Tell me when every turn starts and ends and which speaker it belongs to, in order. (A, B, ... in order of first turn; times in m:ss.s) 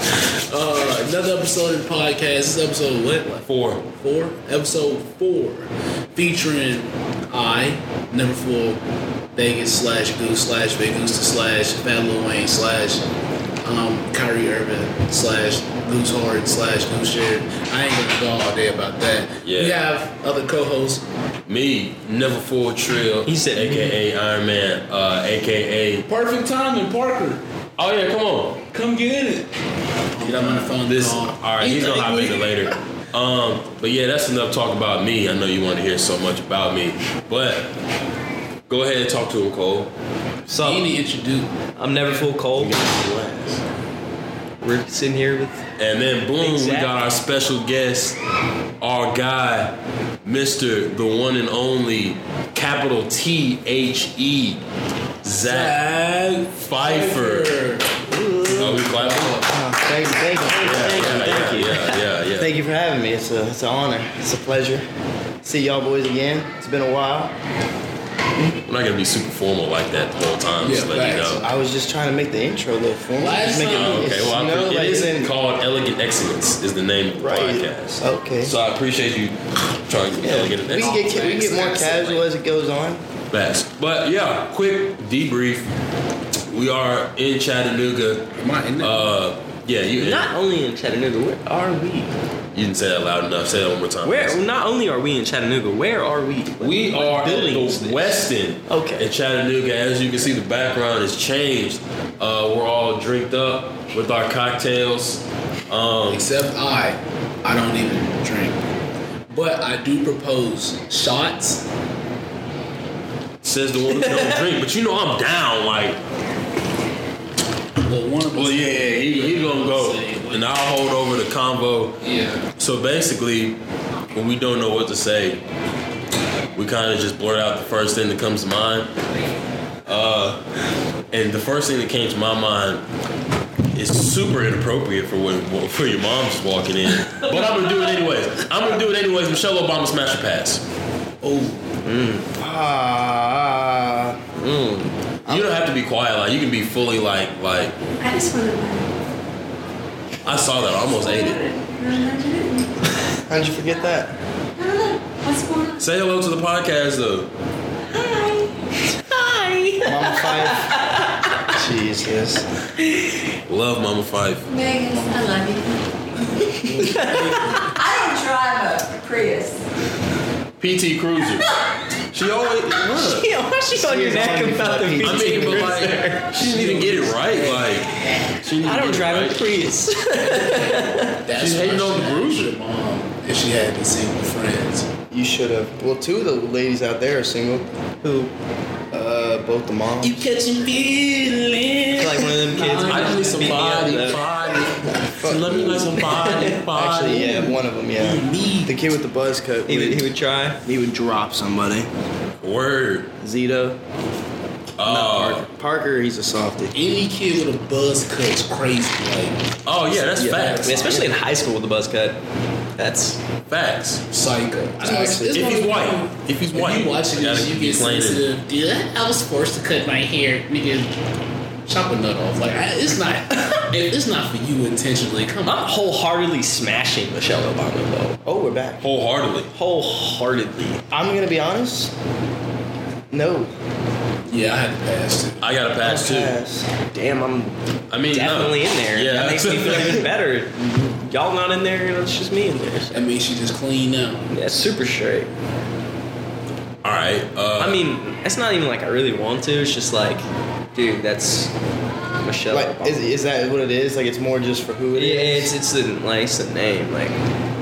0:00.2-0:08.8 A
0:03.4-0:03.8 B
0:09.3-0:13.0 A
0:13.6-0:21.0 A
0:19.4-0:19.8 B
0:21.5-0:26.0 B
0:23.2-0:24.0 C
0:26.1-0:27.4 A
0:27.8-0:28.6 B
0:28.7-0:29.5 A
0:30.2-0:32.5 A
0:30.4-0:37.7 B
0:38.7-0:39.9 B
0:40.5-0:40.9 C
0:40.6-0:41.5 A
0:41.8-0:42.8 C
0:42.5-0:43.6 B
0:44.6-0:45.6 C
0:45.8-0:48.2 B
0:46.4-0:47.1 C
0:48.8-0:54.6 B
0:55.2-0:55.8 B
0:55.4-0:59.5 A
0:56.6-0:57.5 B
0:58.6-0:59.4 B
0:59.5-1:01.8 D
1:00.5-1:02.0 C
1:00.6-1:02.5 B
1:02.3-1:04.8 D
1:05.4-1:07.3 D
1:08.6-1:11.4 B
1:10.6-1:11.6 A
1:11.4-1:15.3 D
1:13.2-1:14.2 A
1:13.6-1:21.1 B
1:17.2-1:18.6 D
1:20.2-1:23.0 D
1:20.7-1:22.2 A
1:23.3-1:25.7 B
1:26.5-1:30.3 B
1:28.4-1:29.1 A
1:29.9-1:32.1 C
1:32.5-1:34.4 B
1:34.0-1:39.1 C
1:36.6-1:46.3 B
1:46.1-1:48.6 A
1:49.3-1:51.6 A
1:53.4-1:56.0 B
1:53.9-1:54.4 C
1:57.8-2:00.4 A
1:58.3-2:02.0 B
2:02.0-2:02.4 A
2:02.6-2:03.6 B
2:04.1-2:05.4 B
2:06.5-2:08.9 B
2:09.8-2:10.4 B
2:11.1-2:12.8 B
2:13.7-2:20.6 B
2:21.2-2:21.6 A
2:21.8-2:22.3 C
2:22.4-2:24.2 D
2:24.4-2:24.9 C
2:25.3-2:27.7 B
2:28.0-2:28.9 E
2:30.2-2:31.4 B
2:30.8-2:32.7 E
2:33.3-2:34.1 D
2:34.6-2:35.8 E
2:35.8-2:37.3 B
2:37.9-2:38.5 E
2:39.0-2:41.5 C
2:39.8-2:40.7 D
2:41.5-2:42.4 D
2:43.5-2:44.4 B
2:44.5-2:46.5 E
2:46.6-2:47.3 D
2:46.7-2:47.6 C
2:47.6-2:49.6 E
2:50.6-2:51.5 B
2:52.1-2:53.3 B
2:52.9-2:56.4 C
2:53.7-2:55.9 D
2:55.0-2:59.5 B
2:56.4-2:57.2 A
2:58.6-3:01.2 C
3:01.2-3:04.9 A
3:01.3-3:02.5 B
3:05.1-3:07.7 D
3:08.0-3:08.3 C
3:08.9-3:10.2 D
3:10.0-3:14.6 A
3:12.0-3:14.2 C
3:12.8-3:17.4 B
3:15.2-3:20.1 D
3:16.0-3:16.6 C
3:18.0-3:18.8 A
3:19.7-3:20.6 C
3:20.6-3:21.9 D
3:22.4-3:23.1 B
3:23.2-3:23.8 D
3:24.8-3:25.4 B
3:24.8-3:26.7 D
3:26.7-3:31.1 A
3:29.6-3:31.0 B
3:30.6-3:32.2 C
3:32.8-3:33.2 C
3:33.5-3:34.0 B
3:34.1-3:40.9 A
3:34.8-3:35.6 D
3:35.3-3:38.2 B
3:41.7-3:46.0 A
3:45.4-3:48.2 C
3:48.2-3:48.8 D
3:48.8-3:49.5 B
3:49.5-3:50.8 C
3:50.9-3:51.9 D
3:53.1-3:53.5 D
3:54.3-3:55.4 A
3:55.4-3:56.3 B
3:55.8-3:56.7 D
3:56.8-3:57.5 C
3:57.9-4:00.1 B
3:58.1-4:03.1 C
4:02.9-4:04.3 A
4:04.3-4:05.3 C
4:06.8-4:07.8 B
4:07.6-4:10.2 C
4:10.7-4:11.5 C
4:12.2-4:13.0 C
4:12.5-4:15.5 D
4:14.9-4:17.1 C